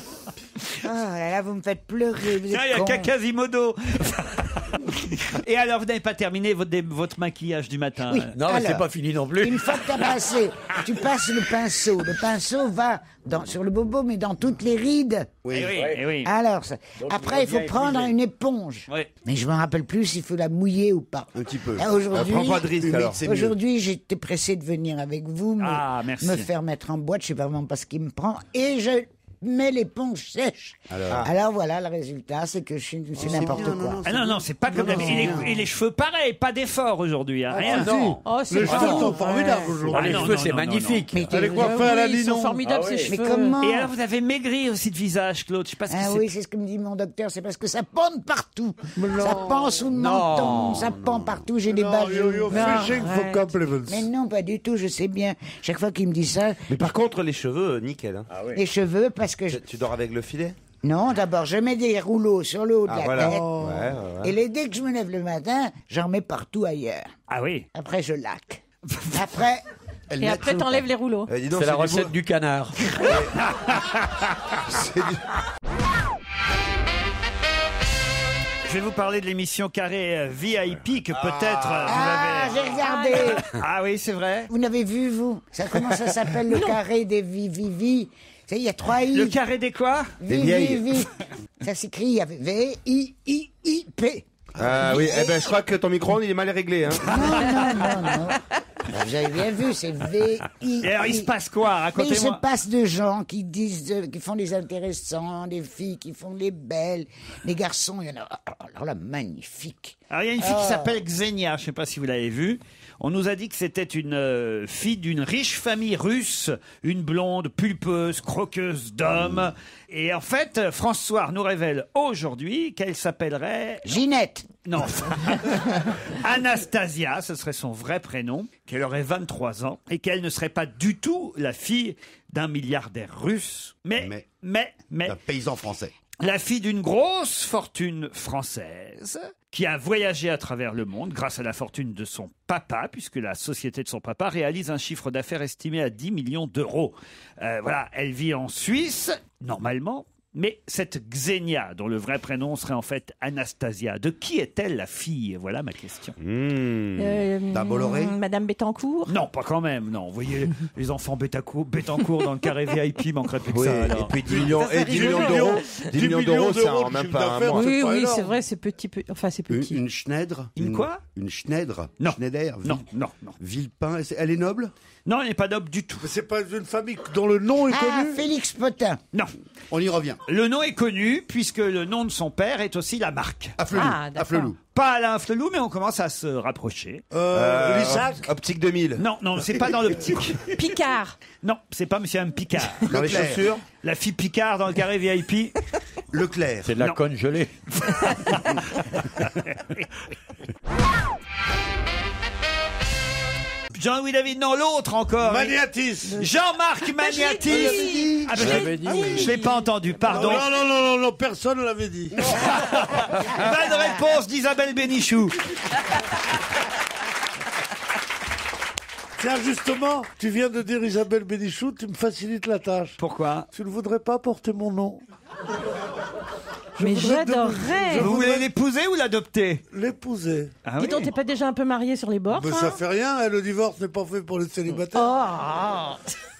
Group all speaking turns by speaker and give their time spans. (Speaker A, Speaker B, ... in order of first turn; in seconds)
Speaker A: 0.8-3.1, 8.1-8.8, 9.4-15.4, 16.2-34.0, 43.1-43.9, 45.9-53.0, 53.9-56.7, 58.5-59.6, 60.8-63.5, 64.2-67.1, 67.7-69.6, 81.8-83.4, 84.5-89.4, 90.2-95.4, 97.0-101.3, 101.9-111.0, 123.8-124.5, 177.7-179.0
Speaker B: 2.5-8.3, 15.5-16.3, 25.6-26.5, 34.0-37.9, 39.9-41.0, 43.6-46.2, 67.3-67.7, 73.7-74.2, 78.6-84.5, 89.1-90.1, 100.8-102.4, 110.1-123.9, 124.6-135.1, 136.2-156.2, 159.1-164.1, 170.6-171.0, 172.0-173.3, 175.1-176.1, 180.3-183.5, 184.7-187.0, 189.0-190.5, 191.4-192.9, 193.8-195.5, 197.8-198.7, 199.2-199.8, 203.7-205.6, 206.2-210.4, 212.3-215.3, 223.0-223.5, 227.9-229.6, 230.6-231.1
Speaker C: 8.3-9.7, 15.7-16.2, 17.0-18.1, 38.6-39.2, 39.9-41.4, 42.6-43.1, 49.9-51.0, 58.3-58.6, 71.5-73.1, 196.6-197.5, 208.3-209.3
Speaker D: 15.4-15.8, 21.3-21.9, 22.8-23.5, 30.9-31.2, 33.2-35.6, 70.1-70.7, 133.9-134.2, 135.0-135.9, 157.5-158.2, 169.5-172.8, 173.4-174.7, 179.7-180.2, 183.6-184.6, 192.9-193.5, 196.1-196.7, 207.5-208.5
Speaker E: 22.1-23.2, 37.7-38.0, 56.7-58.3, 59.5-60.6, 62.9-64.3, 70.3-70.5, 71.3-72.1, 73.0-73.4, 74.7-75.2, 81.1-82.1, 90.3-91.0, 94.6-97.4, 156.2-157.2, 163.5-167.7, 187.3-189.0, 192.9-193.6
Speaker F: 34.7-35.5, 37.5-40.4, 41.3-42.6, 49.0-49.8, 51.7-54.1, 63.2-63.9, 164.2-168.3, 176.0-178.2, 187.1-188.2, 205.2-206.2, 210.1-212.3, 219.2-223.0, 223.5-225.0, 226.8-228.5, 229.7-230.6, 232.3-235.1
Speaker G: 38.2-39.8, 41.3-43.6, 52.5-53.5, 70.2-71.3, 82.8-83.3, 86.5-86.8, 157.0-159.2, 164.5-165.9, 167.5-169.8, 183.7-184.5, 190.5-191.2, 206.9-210.4, 226.8-228.1, 230.8-232.8, 234.9-236.1